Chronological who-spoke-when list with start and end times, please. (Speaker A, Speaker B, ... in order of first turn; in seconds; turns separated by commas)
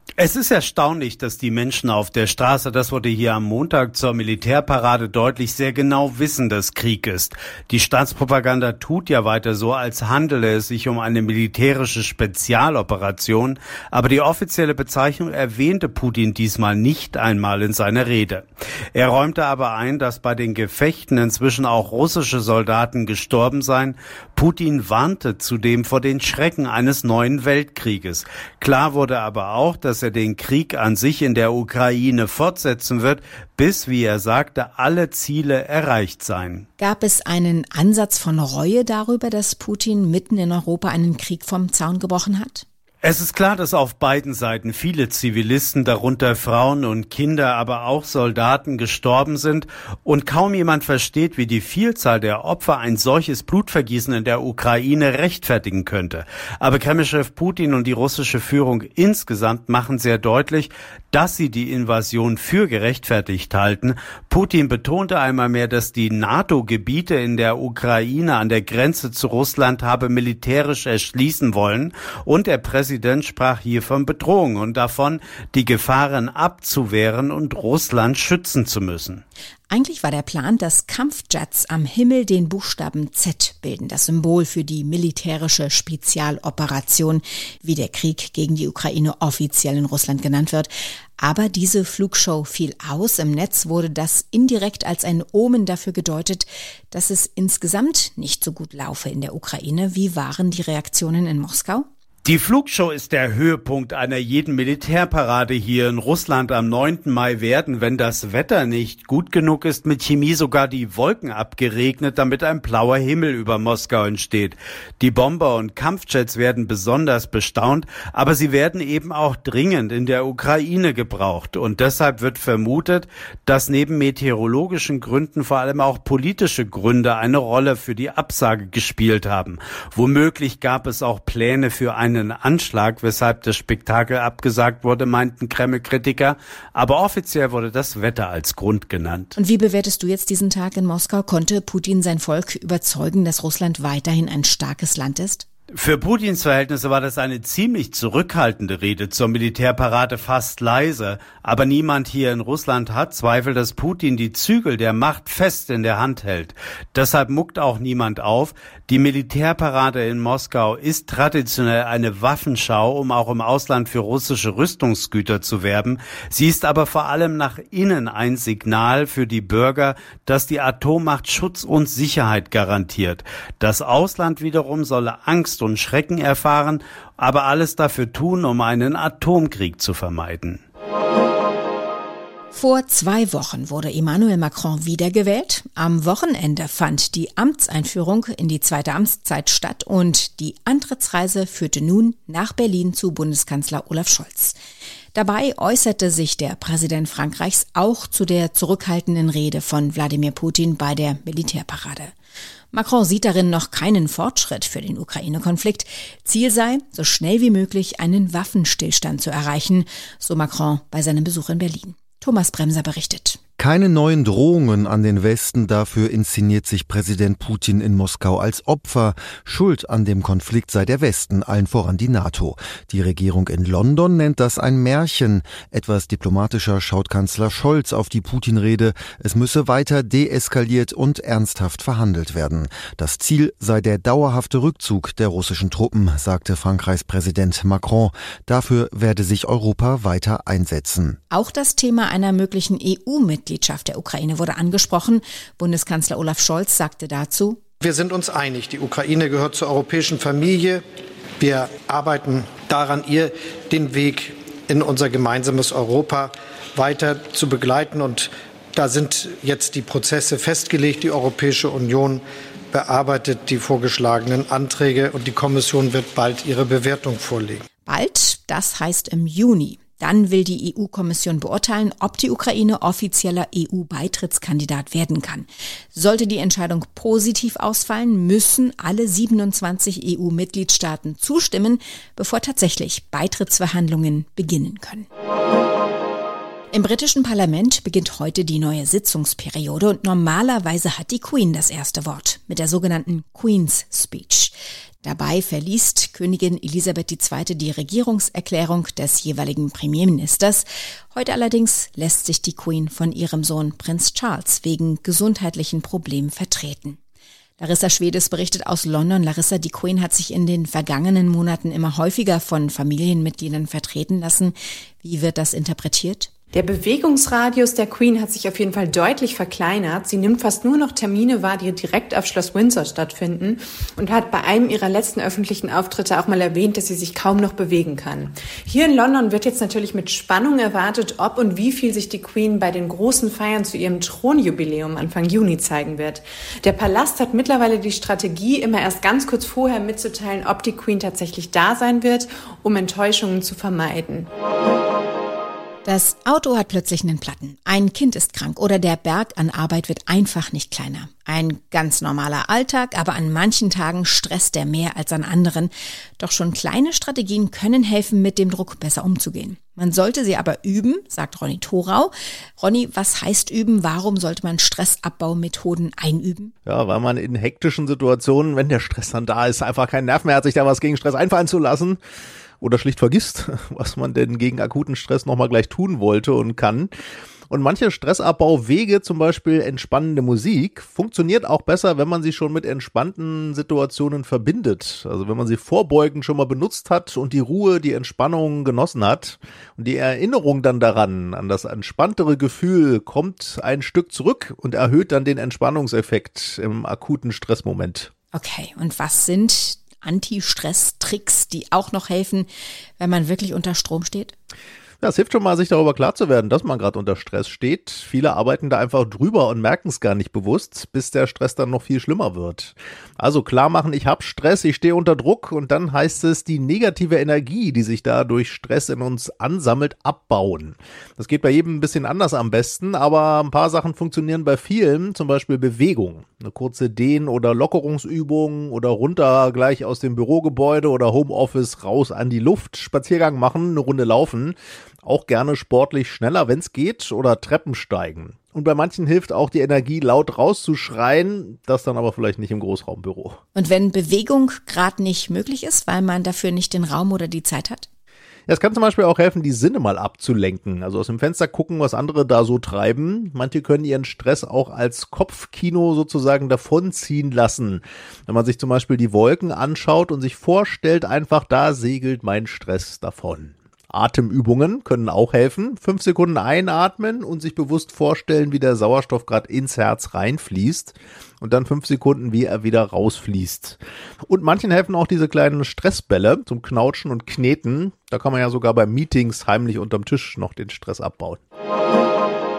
Speaker A: 0.2-36.6, Speaker B: 36.8-42.6, Speaker A: 43.0-79.2, Speaker B: 79.7-101.8, Speaker A: 102.2-139.4, Speaker B: 139.4-145.4, Speaker A: 145.8-180.6, Speaker B: 182.5-194.6, Speaker B: 195.2-202.1, Speaker B: 202.7-213.4, Speaker C: 213.6-241.2, Speaker B: 241.3-247.6, Speaker D: 247.9-250.8, Speaker D: 251.4-262.2, Speaker D: 262.7-267.6, Speaker B: 267.9-285.1, Speaker B: 286.7-307.0, Speaker B: 307.6-316.3, Speaker E: 316.5-344.3, Speaker B: 345.9-366.5, Speaker F: 366.7-372.0, Speaker F: 372.6-376.9, Speaker F: 377.5-398.1, Speaker B: 398.3-404.4, Speaker F: 405.0-443.4, Speaker B: 443.6-447.9, Speaker F: 448.5-481.4